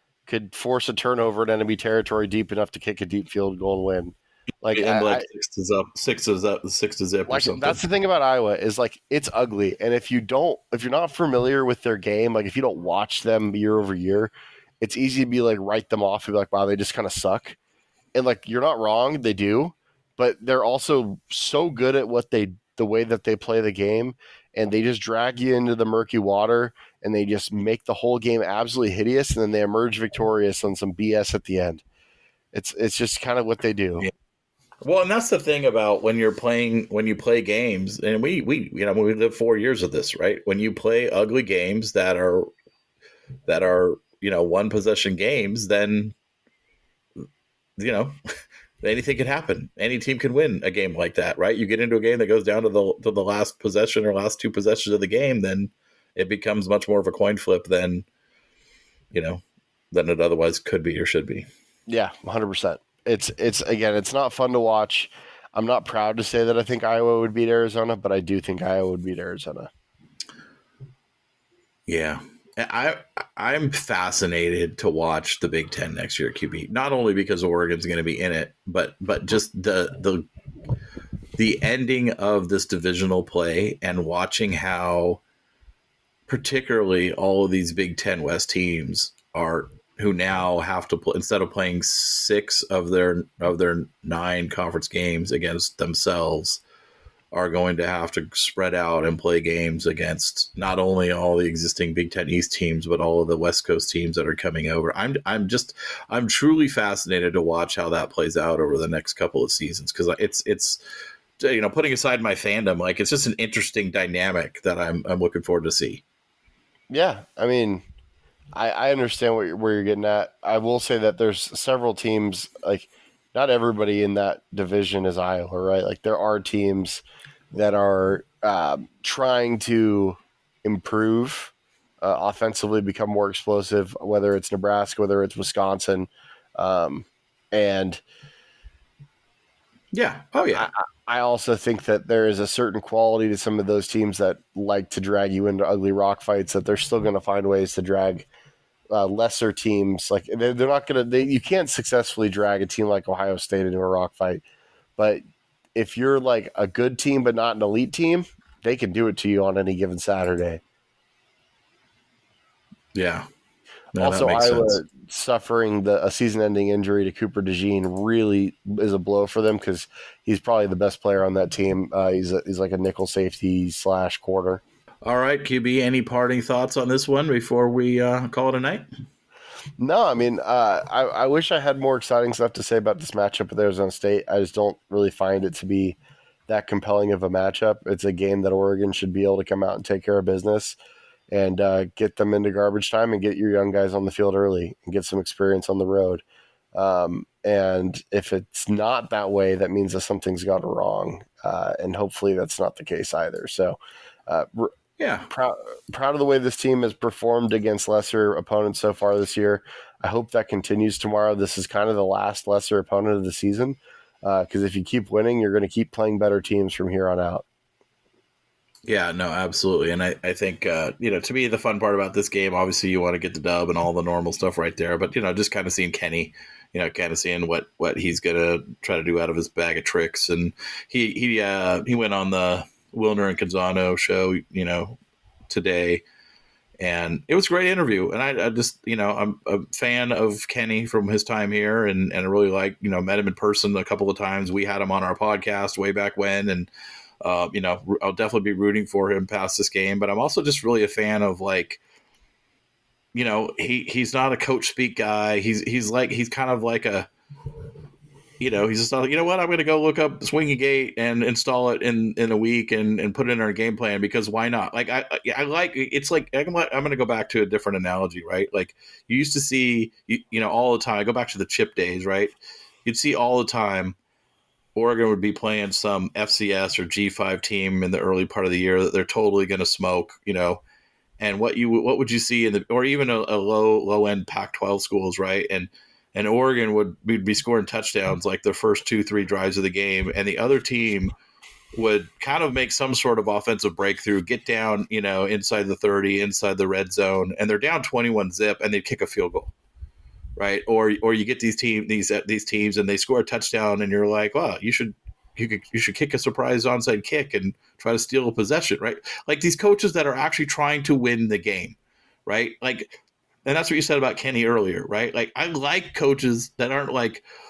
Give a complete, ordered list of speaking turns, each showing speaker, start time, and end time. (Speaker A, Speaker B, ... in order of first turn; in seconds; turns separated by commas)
Speaker A: 0.2-5.2, Speaker B: 4.7-7.8, Speaker A: 7.3-17.6, Speaker A: 18.1-31.8, Speaker A: 32.5-34.1, Speaker B: 34.8-42.5, Speaker B: 43.5-46.1, Speaker B: 47.8-48.1, Speaker B: 48.8-58.0, Speaker B: 59.1-61.5, Speaker A: 61.9-69.7, Speaker B: 71.9-80.2, Speaker B: 81.4-85.2, Speaker B: 86.3-96.6, Speaker B: 97.3-110.8, Speaker B: 111.4-116.0, Speaker A: 116.9-117.8, Speaker A: 118.5-138.0, Speaker B: 139.9-140.7, Speaker A: 140.5-148.3, Speaker A: 148.9-154.4, Speaker A: 155.0-155.2, Speaker A: 155.7-160.6, Speaker B: 162.9-163.3, Speaker B: 163.9-164.8, Speaker A: 163.9-174.6, Speaker B: 175.0-178.9, Speaker A: 179.8-190.8, Speaker A: 191.3-196.2, Speaker A: 196.7-204.7, Speaker B: 205.0-205.3, Speaker A: 205.3-217.4, Speaker B: 218.9-235.0, Speaker B: 235.5-236.0, Speaker B: 236.8-246.7, Speaker B: 247.2-251.8, Speaker B: 253.1-257.1, Speaker B: 258.4-273.9, Speaker B: 274.7-280.6, Speaker B: 281.2-291.1, Speaker B: 291.7-299.5, Speaker B: 300.4-317.2